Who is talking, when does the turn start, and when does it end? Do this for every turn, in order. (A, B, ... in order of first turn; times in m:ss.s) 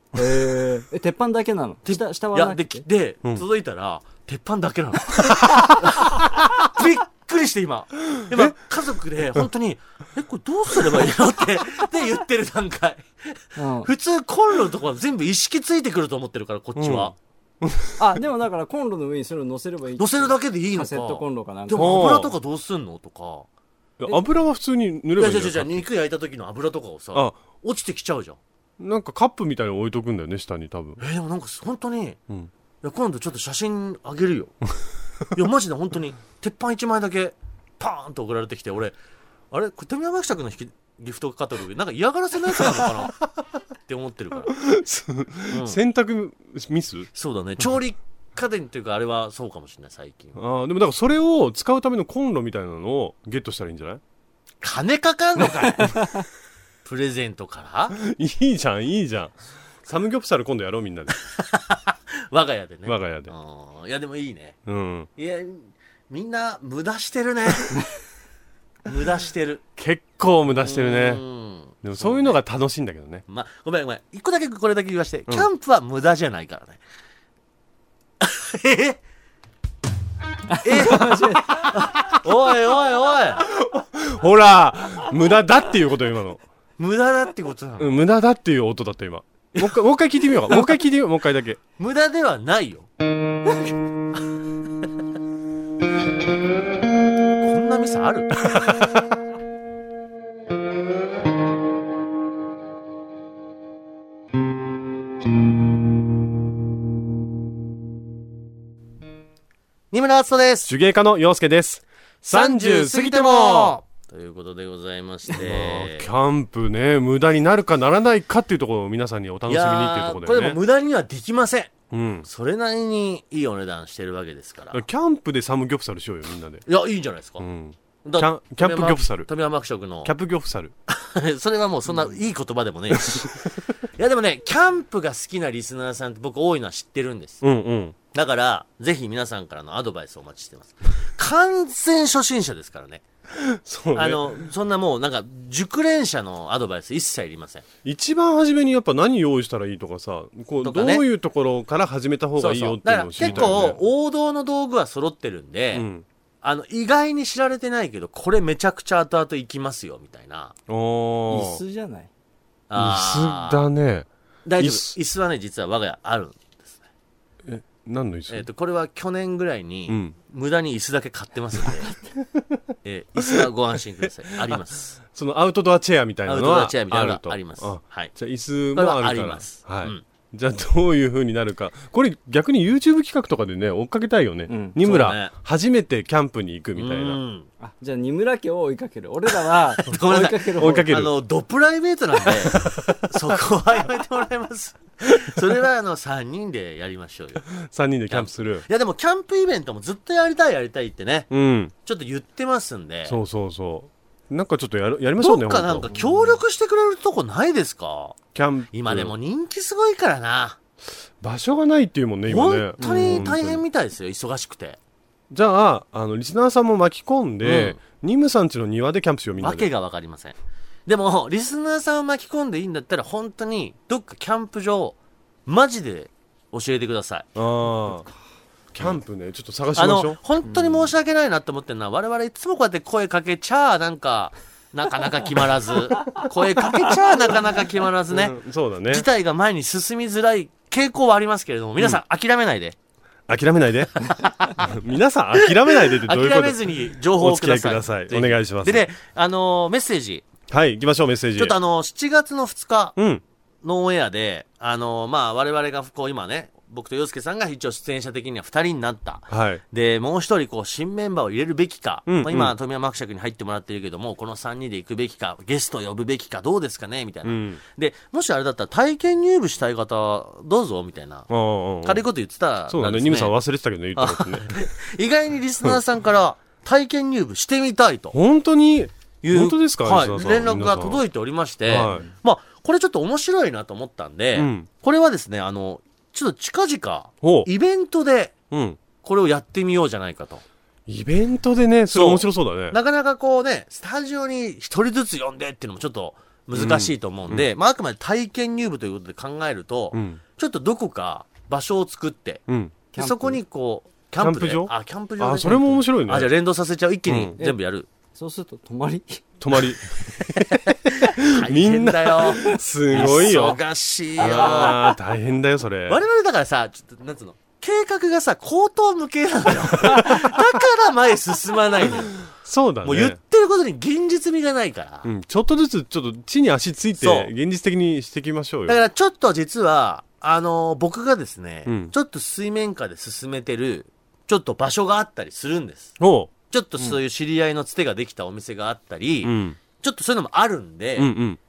0:00.1-0:02.8 A
0:01.8-0:17.1 B
0:13.6-0:13.9 A
0:16.8-0:18.0 C
0:18.0-0:22.2 A
0:20.0-0:23.5 B
0:21.8-0:22.3 C
0:24.0-0:25.9 C
0:25.2-0:28.4 B
0:28.8-0:31.0 C
0:31.0-0:32.2 B
0:32.8-0:34.6 B
0:35.3-0:38.9 B
0:39.5-0:43.2 B
0:43.8-0:44.6 B
0:44.5-0:47.1 C
0:45.5-0:45.8 B
0:47.1-0:50.4 B
0:50.4-0:54.0 C
0:54.6-0:56.0 B
0:55.9-0:56.2 A
0:56.8-0:58.0 B
0:58.0-1:01.1 C
1:01.2-1:04.6 B
1:02.8-1:03.3 C
1:04.6-1:05.1 C
1:05.2-1:07.9 B
1:08.8-1:09.6 B
1:09.8-1:11.2 C
1:10.6-1:12.4 B
1:11.8-1:13.2 C
1:13.3-1:16.8 B
1:18.2-1:19.0 B
1:20.5-1:21.8 A
1:20.6-1:23.5 B
1:23.4-1:26.4 C
1:26.8-1:28.0 B
1:27.8-1:31.6 C
1:31.8-1:32.9 B
1:37.4-1:38.9 B
1:38.4-1:39.1 C
1:49.9-1:50.7 B
1:50.6-1:53.8 C
1:52.2-1:56.1 B
1:55.3-2:00.6 C
1:59.5-2:04.8 B
2:01.9-2:02.2 C
2:04.7-2:06.6 C
2:06.6-2:07.4 B
2:07.4-2:09.3 C
2:08.0-2:10.1 B
2:10.0-2:10.7 C
2:10.9-2:17.4 B
2:12.9-2:13.4 C
2:17.4-2:18.0 C
2:18.1-2:23.0 B
2:23.3-2:24.4 C
2:23.9-2:27.6 B
2:27.8-2:33.8 C
2:30.6-2:31.0 B
2:32.4-2:35.9 B
2:33.2-2:33.5 A
2:35.7-2:36.0 C
2:36.4-2:40.5 B
2:40.7-2:41.6 C
2:41.3-2:42.1 A
2:42.7-2:43.6 B
2:42.8-2:45.0 C
2:44.4-2:46.8 B
2:47.4-2:48.5 C
2:48.3-2:51.9 B
2:49.9-2:50.1 C
2:52.8-2:55.0 B
2:53.2-2:53.4 C
2:54.4-3:07.2 C
2:56.2-2:58.1 B
2:58.7-3:00.0 B
3:04.5-3:04.8 A
3:04.8-3:05.3 B
3:06.7-3:07.5 B
3:07.6-3:10.9 A
3:09.8-3:17.4 B
3:10.4-3:11.1 C
3:17.5-3:18.6 C
3:18.1-3:21.3 B
3:21.3-3:21.7 C
3:21.8-3:23.2 B
3:23.0-3:25.9 C
3:25.2-3:28.2 B
3:28.3-3:29.1 C
3:28.7-3:30.6 B
3:31.2-3:33.6 C
3:32.3-3:34.8 B
3:32.8-3:33.3 A
3:35.3-3:39.7 C
3:37.4-3:37.8 B
3:39.4-3:47.3 B
3:47.4-3:48.1 C
3:48.7-3:50.2 C
3:49.7-3:58.4 B
3:58.1-3:59.0 C
3:58.9-4:02.8 B
4:03.3-4:08.9 C
4:04.0-4:04.7 B
4:05.4-4:10.3 B
4:10.5-4:11.6 C
4:11.4-4:13.0 B
4:13.0-4:13.2 C
4:13.6-4:31.3 B
4:19.3-4:19.6 C
4:22.1-4:22.5 C
4:27.2-4:27.6 C
4:31.3-4:32.0 C
4:31.8-4:33.4 B
4:32.7-4:34.5 C
4:34.0-4:38.2 B
4:38.1-4:41.0 C
4:39.2-4:48.3 B
4:41.6-4:42.0 C
4:44.3-4:44.7 C
4:47.2-4:47.5 C
4:48.5-4:48.8 C
4:49.0-4:50.4 B
4:50.9-4:52.8 C
4:51.9-5:02.4 B
4:56.5-4:57.5 C
4:59.9-5:00.2 C
5:02.5-5:02.8 C
5:02.9-5:03.4 A
5:02.9-5:07.9 B
5:04.2-5:06.3 C
5:07.0-5:07.4 C
5:08.1-5:09.4 A
5:09.4-5:13.6 C
5:10.2-5:14.9 B
5:14.2-5:16.0 C
5:15.9-5:22.2 B
5:22.3-5:23.2 C
5:22.8-5:25.1 B
5:25.0-5:28.8 C
5:27.0-5:27.3 B
5:28.7-5:36.0 B
5:31.6-5:31.9 C
5:36.0-5:36.3 C
5:36.5-5:41.1 B
5:39.2-5:39.6 C
5:41.0-5:41.4 C